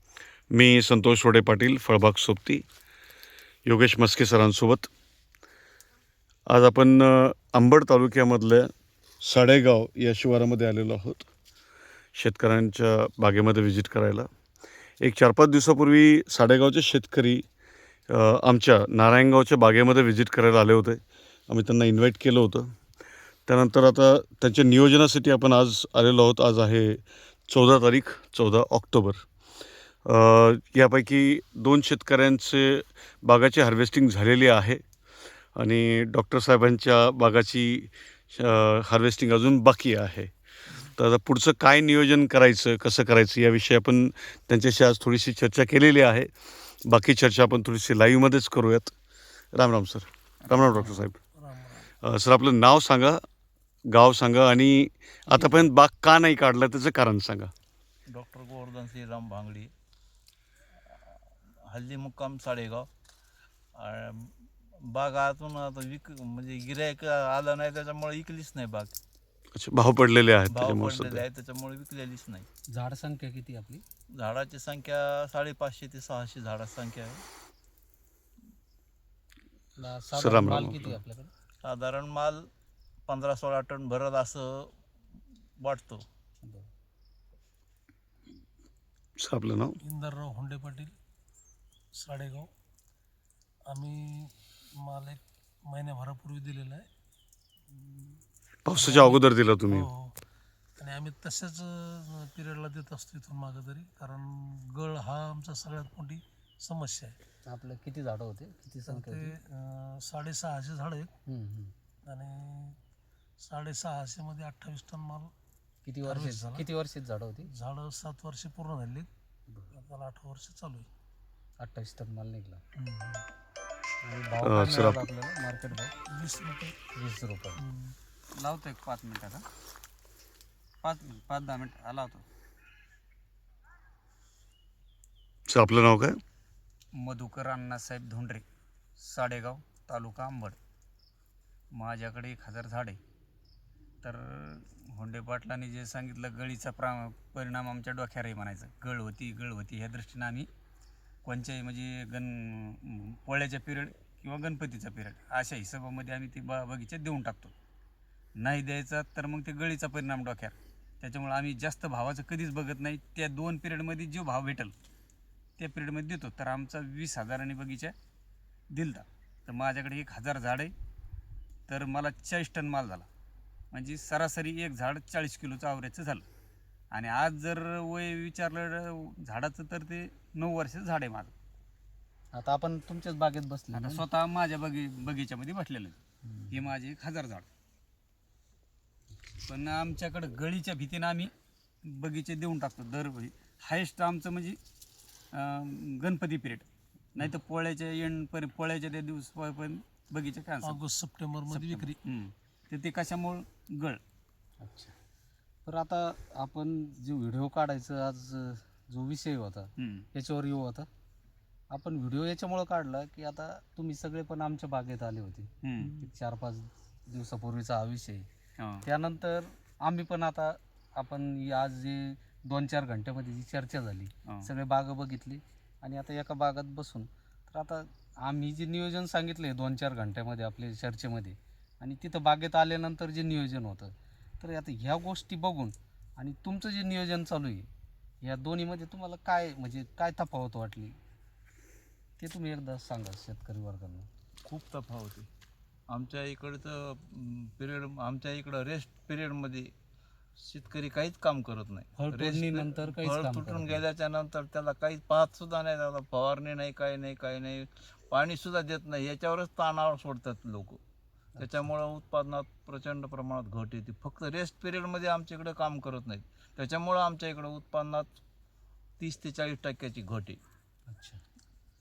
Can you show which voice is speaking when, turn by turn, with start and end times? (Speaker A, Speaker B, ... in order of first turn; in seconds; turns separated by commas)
Speaker A: 0.5-2.6, Speaker A: 3.6-4.9, Speaker A: 6.5-8.7, Speaker A: 9.2-11.3, Speaker A: 12.2-14.3, Speaker A: 15.0-17.4, Speaker A: 18.1-22.7, Speaker A: 23.5-29.2, Speaker A: 30.1-34.8, Speaker A: 35.5-40.3, Speaker A: 41.0-46.3, Speaker A: 46.9-48.9, Speaker A: 49.5-51.2, Speaker B: 50.5-51.1, Speaker C: 51.4-51.9, Speaker A: 52.0-53.2, Speaker A: 53.9-57.5, Speaker D: 58.1-59.7, Speaker D: 60.9-62.9, Speaker D: 63.8-64.3, Speaker D: 64.9-68.9, Speaker A: 69.5-71.2, Speaker D: 70.5-72.5, Speaker E: 72.7-73.8, Speaker D: 74.1-77.2, Speaker E: 79.8-81.3, Speaker A: 80.1-81.0, Speaker D: 81.6-82.5, Speaker D: 83.1-84.7, Speaker D: 85.6-86.0, Speaker A: 89.2-89.8, Speaker C: 89.8-90.9, Speaker C: 92.0-92.5, Speaker C: 93.7-96.9, Speaker C: 97.7-98.2, Speaker A: 98.7-99.9, Speaker C: 98.7-100.1, Speaker C: 100.8-107.2, Speaker E: 107.5-109.3, Speaker C: 108.8-111.1, Speaker E: 111.3-111.7, Speaker C: 112.0-112.8, Speaker C: 113.4-115.3, Speaker E: 115.8-117.5, Speaker C: 116.0-116.7, Speaker C: 117.4-119.1, Speaker C: 119.7-120.9, Speaker E: 121.6-122.6, Speaker C: 122.8-123.2, Speaker E: 124.0-125.9, Speaker A: 124.4-125.1, Speaker C: 126.1-126.8, Speaker E: 126.9-127.6, Speaker C: 127.6-127.9, Speaker B: 128.3-129.4, Speaker B: 130.8-132.2, Speaker A: 135.5-136.2, Speaker B: 136.9-138.4, Speaker B: 139.0-140.6, Speaker B: 141.7-143.0, Speaker B: 144.0-150.5, Speaker B: 151.2-157.5, Speaker B: 158.4-164.7, Speaker B: 165.6-167.9, Speaker B: 168.7-170.7, Speaker B: 171.7-173.1, Speaker B: 173.7-176.2, Speaker B: 176.9-181.3, Speaker E: 182.3-184.0, Speaker B: 183.7-186.0, Speaker B: 186.5-187.4, Speaker B: 189.4-191.3, Speaker B: 191.8-194.6, Speaker B: 195.3-200.8, Speaker C: 200.6-201.9, Speaker B: 201.5-204.0, Speaker E: 204.6-204.9, Speaker E: 205.6-210.9, Speaker B: 209.8-210.1, Speaker E: 211.7-218.3, Speaker B: 215.6-216.0, Speaker B: 218.6-218.8, Speaker E: 218.8-237.7, Speaker E: 238.2-241.0, Speaker E: 242.2-244.1, Speaker D: 244.4-245.3, Speaker D: 245.9-249.7, Speaker D: 250.4-260.8, Speaker E: 252.0-253.8, Speaker E: 261.4-261.6, Speaker D: 261.4-268.2, Speaker D: 269.0-270.4, Speaker E: 270.9-271.2